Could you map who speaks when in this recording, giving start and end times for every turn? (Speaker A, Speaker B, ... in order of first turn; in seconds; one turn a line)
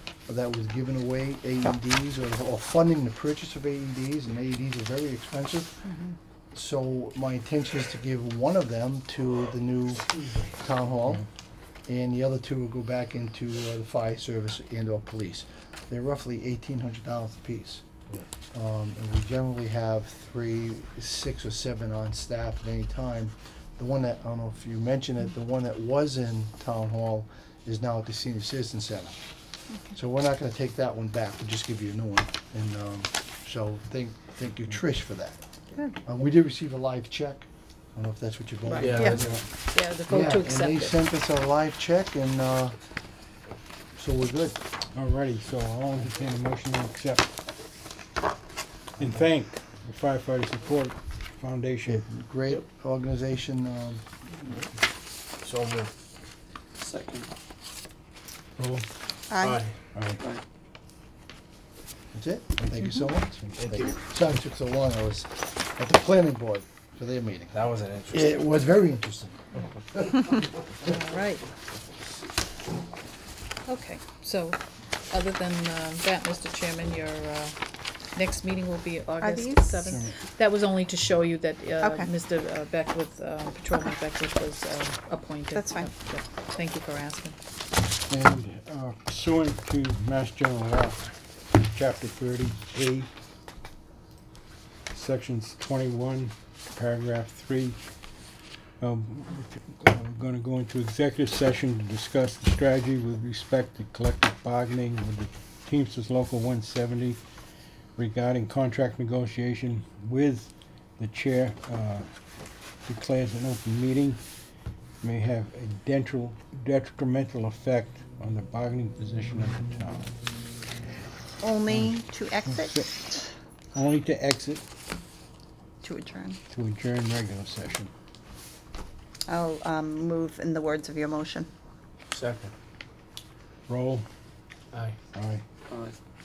Speaker A: 0.2-5.8
Speaker A: 6.5-11.2
Speaker A: 11.9-17.8
Speaker A: 18.5-29.2
Speaker A: 29.9-35.4
Speaker A: 36.0-39.4
Speaker B: 38.7-39.4
Speaker C: 38.9-39.2
Speaker C: 39.7-41.0
Speaker A: 40.1-42.8
Speaker A: 43.9-44.6
Speaker D: 44.9-47.3
Speaker D: 49.0-52.1
Speaker A: 51.9-54.0
Speaker B: 55.4-55.9
Speaker B: 56.8-57.3
Speaker D: 58.6-58.9
Speaker E: 59.3-59.6
Speaker B: 59.4-59.8
Speaker D: 59.9-60.2
Speaker A: 62.1-70.2
Speaker B: 63.6-63.9
Speaker B: 67.5-68.3
Speaker C: 70.8-71.5
Speaker C: 73.7-77.6
Speaker C: 78.1-87.3
Speaker E: 79.2-80.0
Speaker D: 79.9-80.1
Speaker E: 81.8-82.1
Speaker E: 85.5-85.9
Speaker D: 88.1-93.1
Speaker D: 94.9-97.8
Speaker D: 98.8-107.2
Speaker D: 108.0-112.1
Speaker D: 112.8-114.2
Speaker D: 115.0-120.1
Speaker E: 121.4-122.8
Speaker D: 121.7-121.9
Speaker D: 122.5-124.6
Speaker E: 125.8-126.4
Speaker D: 126.5-127.9
Speaker E: 129.3-131.5
Speaker B: 132.1-132.5
Speaker D: 133.7-134.1
Speaker B: 134.7-135.0
Speaker D: 135.1-135.4
Speaker B: 135.7-135.9